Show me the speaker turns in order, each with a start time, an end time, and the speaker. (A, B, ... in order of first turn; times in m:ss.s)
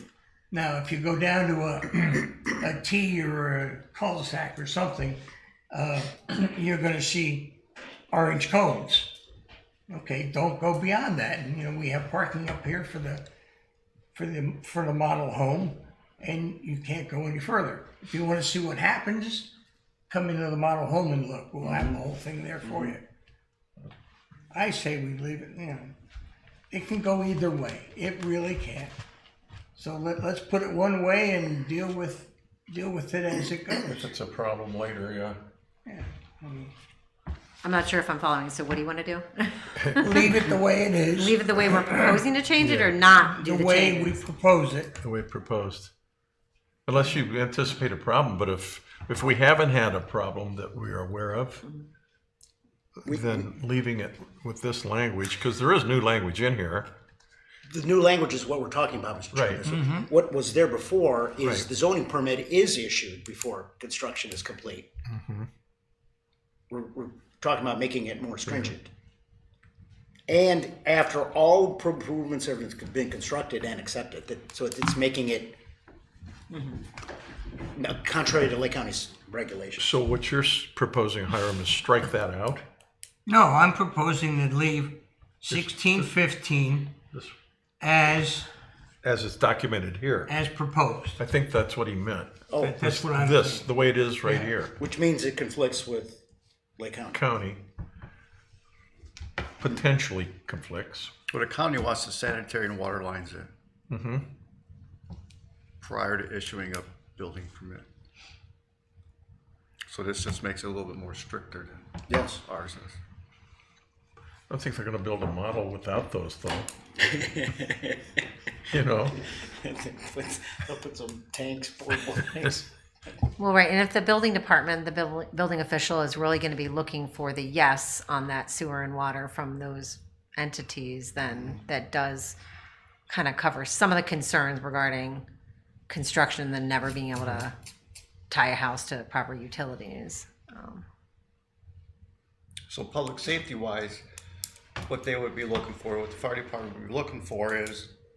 0:00.5-0:05.2 A
0:05.7-0:07.6 A
0:08.1-0:09.2 A
0:09.9-0:13.3 A
0:14.1-0:19.5 A
0:20.1-0:23.1 A
0:24.5-0:25.9 A
0:26.7-0:29.0 A
0:29.8-0:34.1 A
0:34.0-0:35.4 B
0:35.8-0:36.7 A
0:37.6-0:40.5 C
0:40.0-0:42.2 A
0:41.1-0:44.2 C
0:42.6-0:43.0 B
0:43.2-0:45.0 A
0:45.0-0:45.9 B
0:46.8-0:51.6 B
0:53.0-0:56.9 B
0:53.1-0:53.5 D
0:57.7-1:04.9 D
0:59.3-0:59.6 B
0:59.7-1:00.1 A
1:01.4-1:01.7 B
1:05.1-1:05.5 B
1:06.7-1:08.9 D
1:10.3-1:15.6 D
1:17.7-1:19.9 D
1:19.8-1:22.6 B
1:23.2-1:27.0 A
1:25.5-1:26.1 B
1:27.8-1:28.5 A
1:29.0-1:30.3 B
1:30.2-1:31.2 A
1:31.2-1:34.7 B
1:32.5-1:32.8 D
1:32.6-1:33.7 A
1:34.8-1:36.2 D
1:36.8-1:37.2 D
1:37.1-1:37.6 B
1:39.6-1:41.1 B
1:41.3-1:43.5 E
1:43.9-1:44.3 B
1:45.8-1:47.8 E
1:49.9-1:51.8 E
1:52.1-1:52.4 D
1:52.4-1:52.9 E
1:54.5-1:56.7 B
1:57.0-1:58.2 D
1:58.7-1:59.2 B
1:59.1-2:02.7 D
2:03.4-2:12.4 C
2:13.1-2:15.2 C
2:15.9-2:17.5 C
2:18.3-2:20.8 C
2:22.7-2:24.0 E
2:24.9-2:27.9 E